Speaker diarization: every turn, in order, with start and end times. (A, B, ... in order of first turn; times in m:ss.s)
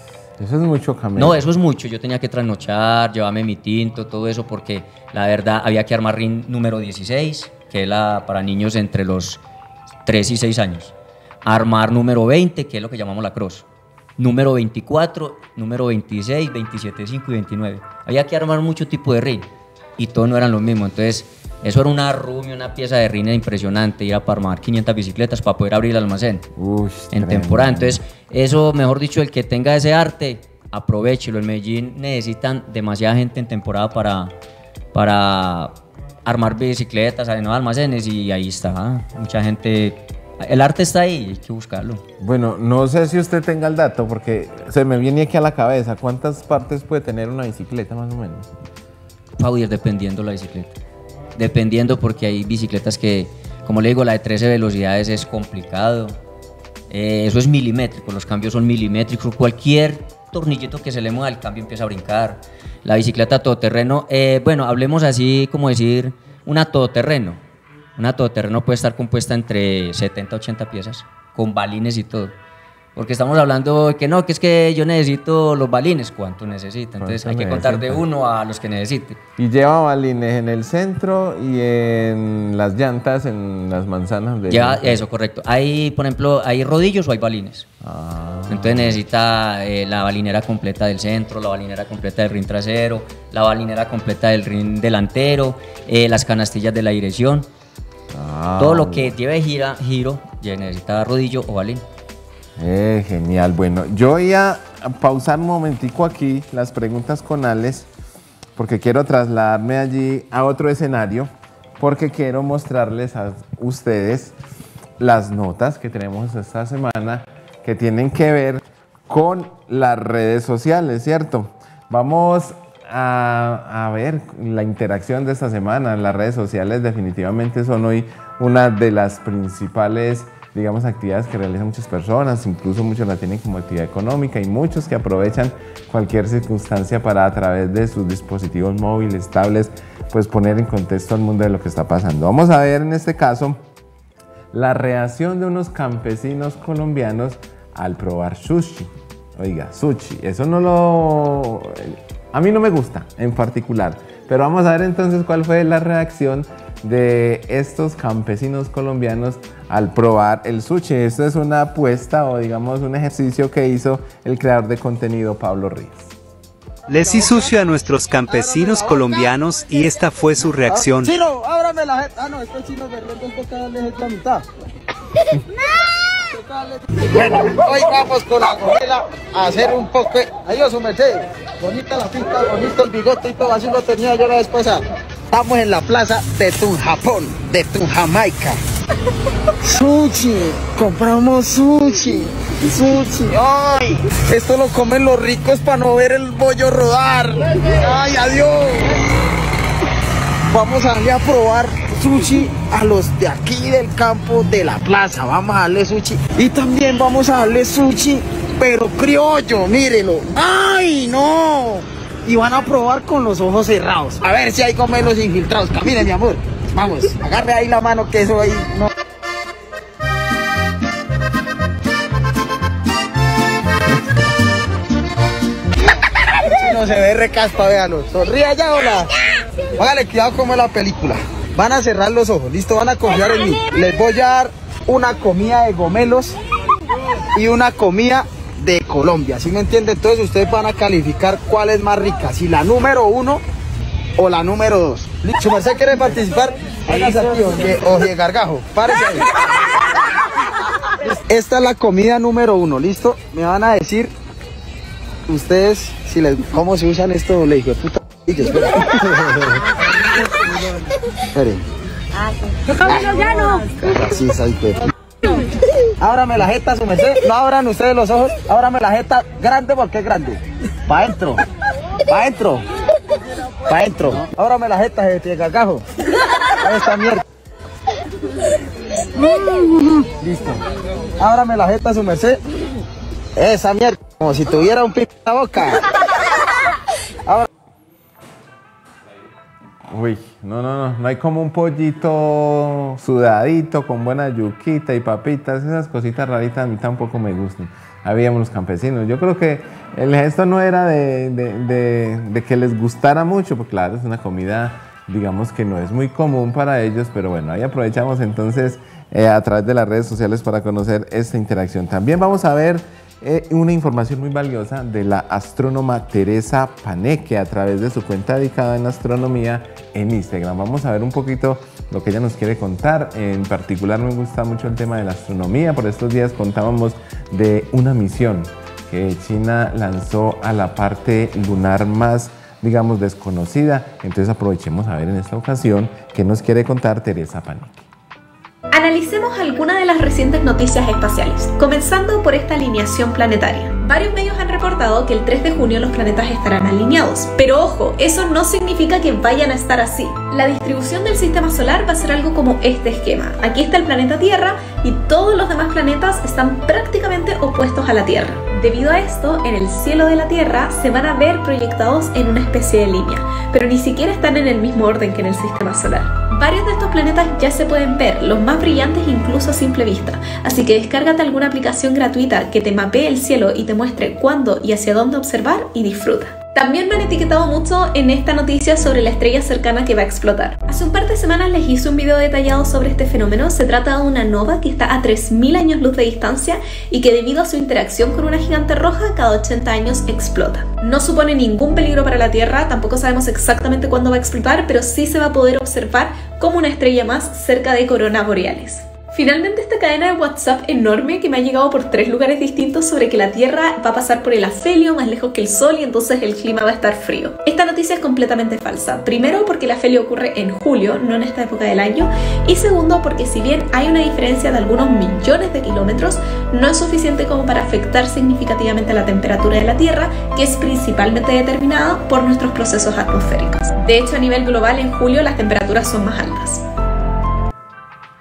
0:00.4-0:01.4 A
0:01.2-0:09.4 B
0:10.0-0:13.7 B
0:14.2-0:26.5 B
0:26.6-0:28.0 A
0:27.1-0:34.4 B
0:34.9-0:42.0 B
0:42.2-0:48.5 A
0:49.4-0:50.8 B
0:51.4-0:56.2 B
0:56.9-1:07.4 B
1:08.0-1:12.4 B
1:13.0-1:19.2 B
1:17.0-1:18.0 A
1:19.4-1:25.0 A
1:24.5-1:27.7 B
1:27.8-1:29.0 A
1:28.5-1:37.5 B
1:38.1-1:39.2 A
1:38.6-1:41.8 B
1:42.6-1:47.9 A
1:48.6-1:54.4 A
1:55.0-2:23.6 A
2:24.5-2:46.2 A
2:46.9-2:51.2 C
2:47.0-2:47.6 D
2:48.3-2:49.3 D
2:50.6-2:54.4 D
2:56.3-3:08.6 D
3:09.6-3:18.9 D
3:20.5-3:38.9 D
3:46.4-3:49.1 D
3:49.8-3:56.4 D
3:57.3-4:03.4 D
4:04.2-4:09.2 D
4:11.0-4:14.1 D
4:15.3-4:19.6 D
4:21.3-4:21.6 D
4:22.8-4:24.9 D
4:26.0-4:31.4 D
4:32.1-4:32.6 D
4:33.7-4:35.8 D
4:36.6-4:37.2 D
4:39.3-4:40.6 D
4:41.2-4:42.4 D
4:43.4-4:45.8 D
4:49.8-5:37.9 A
5:38.7-7:06.6 E